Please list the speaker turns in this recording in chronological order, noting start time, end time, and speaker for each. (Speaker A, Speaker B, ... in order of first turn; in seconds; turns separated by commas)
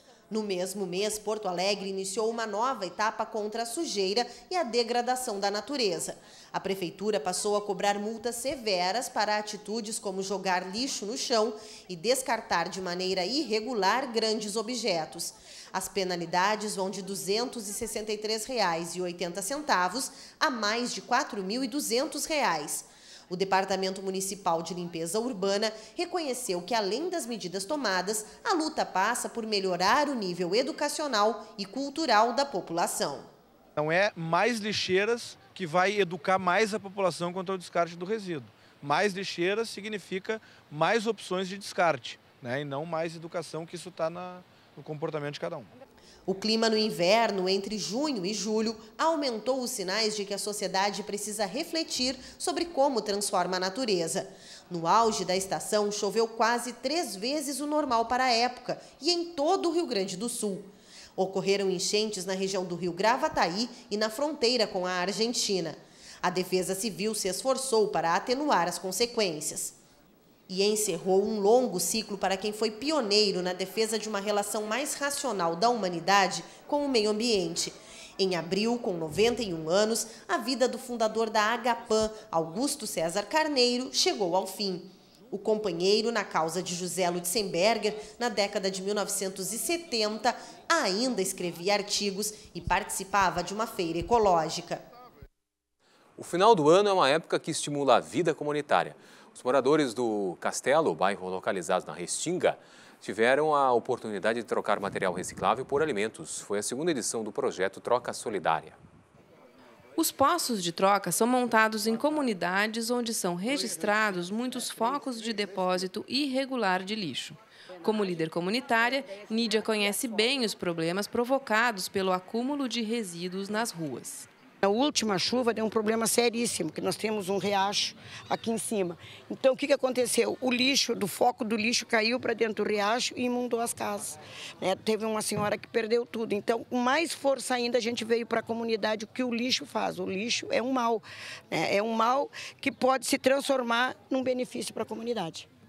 Speaker A: 0.3-33.3, Speaker B: 33.8-45.7, Speaker A: 46.3-69.8, Speaker A: 70.5-94.8, Speaker C: 96.2-108.8, Speaker D: 110.0-124.3, Speaker E: 124.6-145.5